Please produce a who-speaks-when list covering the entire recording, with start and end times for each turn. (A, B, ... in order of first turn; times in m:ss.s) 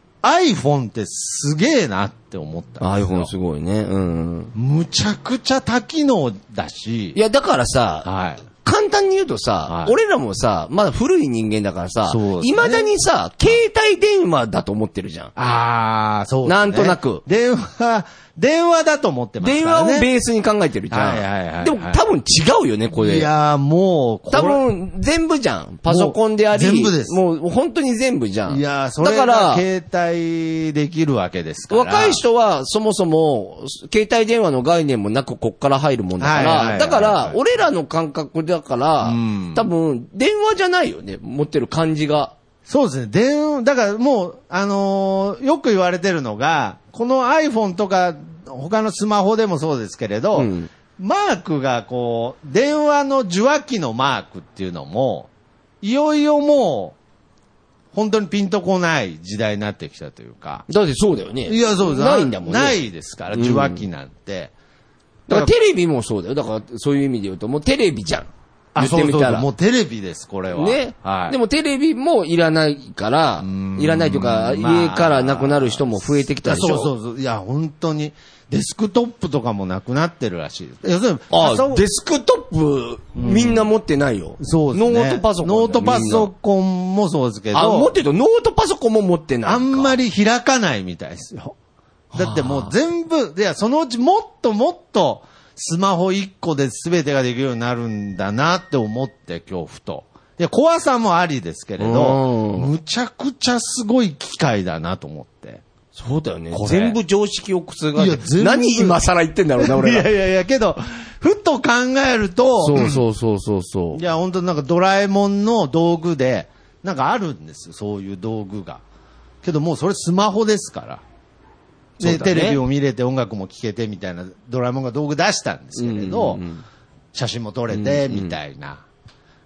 0:00.2-0:03.3 A
0:02.8-0:04.5 B
0:04.5-0:07.2 A
0:07.1-0:08.1 B
0:08.0-0:08.4 A
0:08.6-0:15.3 B
0:09.7-0:09.9 A
0:12.0-0:12.9 A
0:15.4-0:20.1 A
0:16.4-0:17.2 B
0:19.4-0:23.3 B
0:20.9-0:22.0 A
0:22.9-0:24.6 A
0:24.3-0:29.6 B
0:25.9-0:27.2 A
0:28.5-0:32.2 A
0:31.7-0:42.3 B
0:36.2-0:37.4 A
0:39.0-0:39.6 A
0:42.7-0:55.3 A
0:50.3-0:50.7 B
0:55.8-0:57.0 A
0:57.9-1:00.6 A
1:00.7-1:02.8 B
1:01.4-1:04.5 A
1:03.3-1:03.8 B
1:05.3-1:09.5 B
1:08.7-1:11.4 A
1:10.5-1:16.9 B
1:13.4-1:21.8 A
1:21.3-1:26.3 B
1:23.2-1:23.7 A
1:24.4-1:27.9 A
1:27.5-1:30.0 B
1:29.4-1:31.5 A
1:32.1-1:32.7 B
1:32.1-1:45.6 A
1:41.8-1:42.7 B
1:45.9-1:50.1 B
1:46.5-1:47.0 A
1:47.9-1:49.0 A
1:49.6-1:53.0 A
1:52.6-1:54.0 B
1:53.9-1:58.8 A
1:59.4-2:01.0 A
2:02.0-2:02.6 B
2:02.0-2:06.4 A
2:05.8-2:06.6 B
2:07.1-2:08.8 A
2:07.7-2:08.4 B